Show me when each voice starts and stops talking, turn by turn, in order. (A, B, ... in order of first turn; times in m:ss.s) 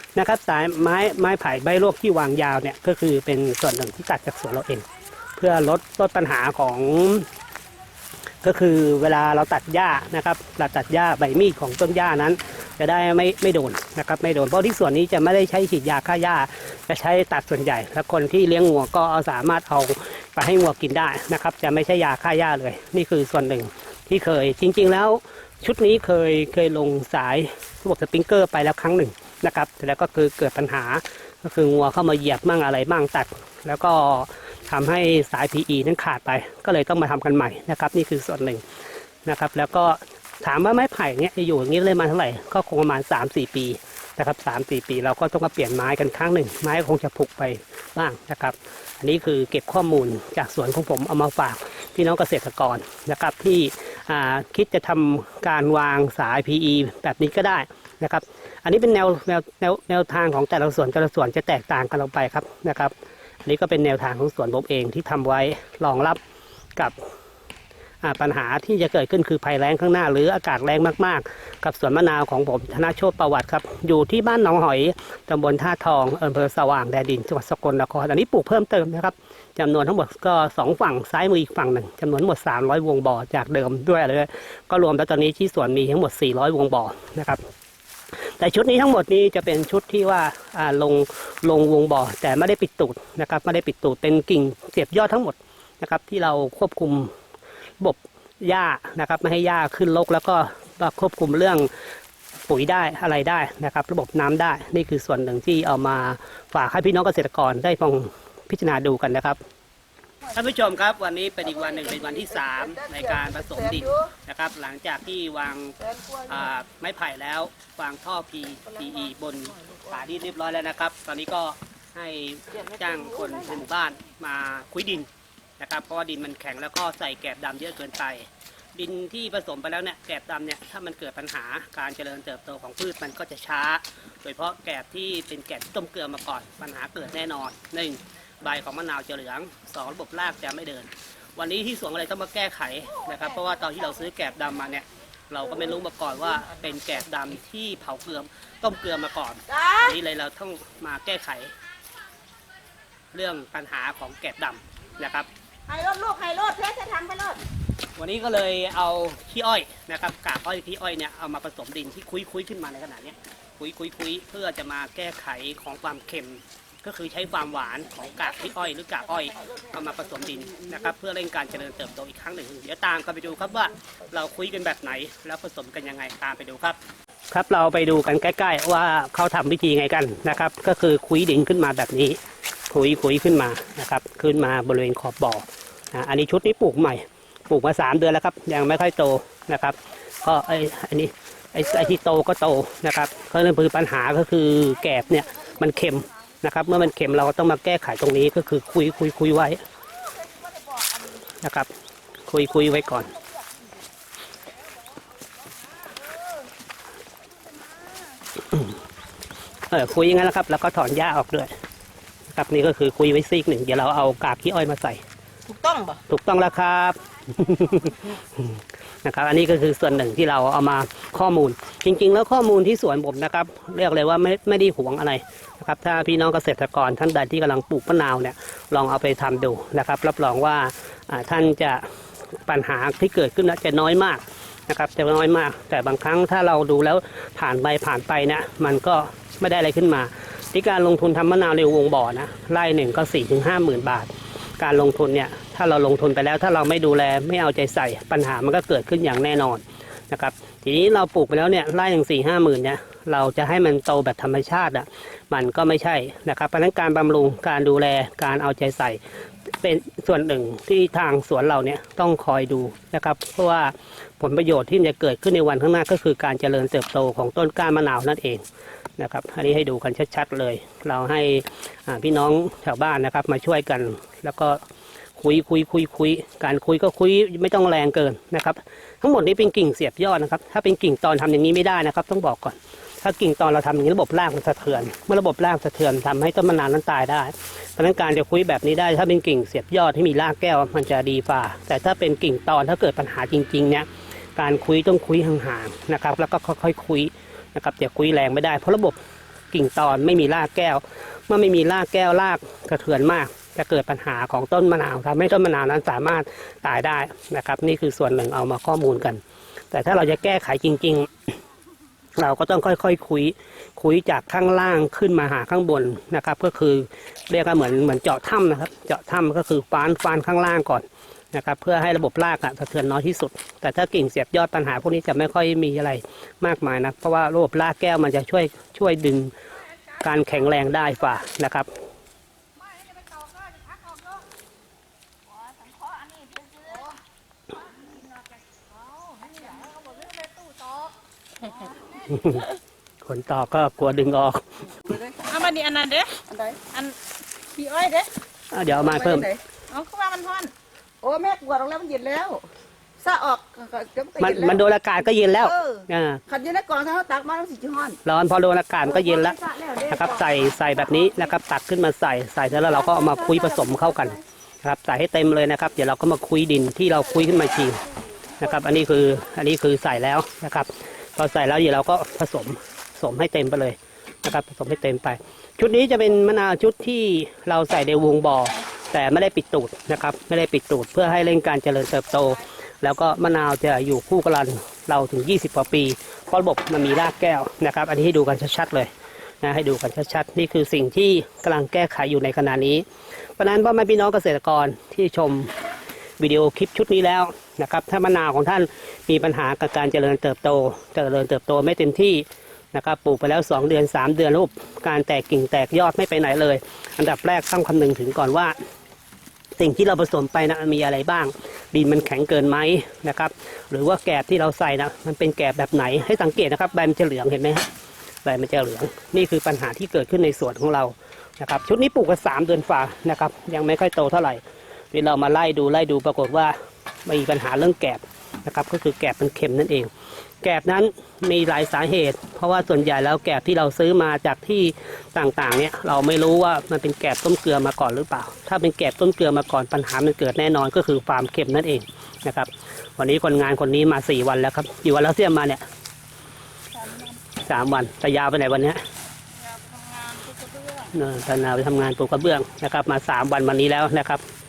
0:00.2-0:07.3 A
0:08.4-0:38.6 A
0:39.2-1:02.9 A
1:03.4-1:06.2 A
1:08.0-1:27.4 A
1:28.2-1:37.1 A
1:37.8-1:41.7 A
1:42.5-1:49.4 A
1:50.3-2:31.5 A
1:51.5-1:54.1 B
1:55.8-1:56.3 B
2:02.7-2:03.6 B
2:29.5-2:30.0 B
2:33.1-2:35.3 A
2:35.7-2:37.4 C
2:38.0-2:56.8 A
2:57.3-3:02.2 A
3:02.7-3:19.6 A
3:20.6-3:21.0 B
3:21.4-3:21.7 A
3:22.3-3:23.1 A
3:29.7-3:31.5 A
3:32.3-3:35.0 A
3:35.5-3:36.0 C
3:36.1-3:51.8 A
3:52.4-4:19.0 A
4:19.6-4:28.4 A
4:29.0-4:34.6 A
4:35.2-5:11.1 A
5:12.2-5:29.3 A
5:30.0-5:31.7 A
5:32.6-5:34.2 C
5:35.2-5:37.0 C
5:38.7-5:40.9 C
5:41.6-5:41.9 C
5:42.0-5:42.5 A
5:43.0-5:44.6 A
5:44.8-5:45.2 B
5:45.2-5:47.0 C
5:46.2-5:46.6 B
5:47.5-5:48.1 C
5:48.5-5:49.3 A
5:48.7-5:49.4 B
5:49.7-5:50.5 C
5:51.0-5:54.6 B
5:54.2-5:56.2 A
5:55.4-5:58.0 B
5:58.0-6:07.8 A
5:58.8-6:00.3 B
6:02.6-6:04.1 B
6:08.4-6:28.9 A
6:29.4-6:32.8 A
6:33.4-6:35.6 A
6:36.2-6:48.6 A
6:49.6-6:57.7 A
6:58.2-7:09.9 A
7:10.4-7:25.6 A
7:26.8-7:27.1 B
7:27.4-7:28.8 A
7:29.4-7:30.9 C
7:30.9-7:34.2 A